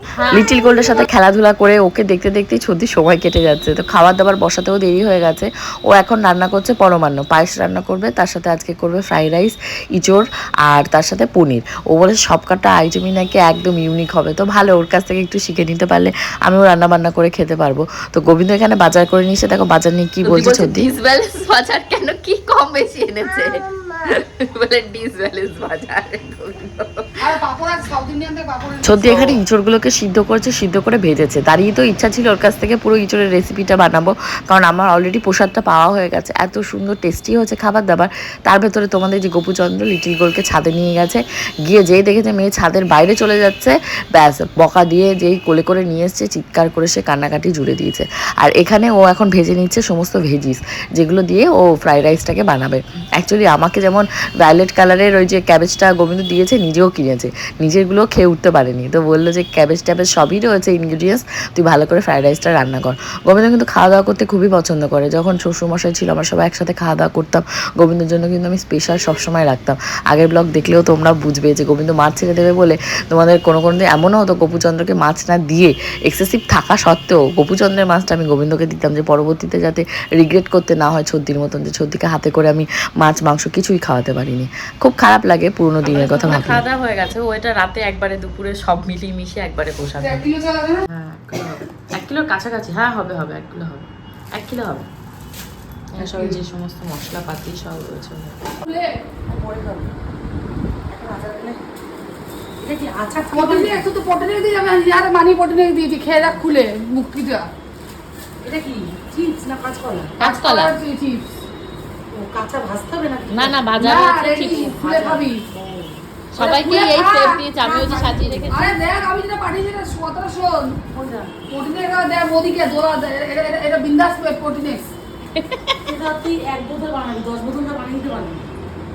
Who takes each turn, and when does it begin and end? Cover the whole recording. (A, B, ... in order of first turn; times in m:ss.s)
0:00.1-0:00.6 A
0:00.3-0:20.9 B
0:20.2-0:27.3 A
0:27.2-0:29.4 C
0:28.8-1:26.6 B
1:25.8-1:30.2 A
1:30.0-1:30.8 C
1:30.9-1:34.9 A
1:36.0-1:38.4 A
1:36.0-1:36.4 C
1:38.6-1:38.9 C
1:39.3-1:39.9 D
1:40.9-1:41.6 C
1:42.6-1:43.9 D
1:43.3-1:47.5 C
1:48.4-1:50.2 D
1:50.2-1:50.8 A
1:50.2-1:51.3 C
1:52.1-1:56.0 D
1:53.3-1:54.7 A
1:53.8-1:55.4 C
1:56.3-1:58.6 A
1:56.4-1:57.4 C
1:57.6-1:58.8 D
1:58.5-2:00.8 C
2:00.9-2:01.4 D
2:01.5-2:04.9 C
2:05.4-2:05.8 A
2:05.8-2:08.5 D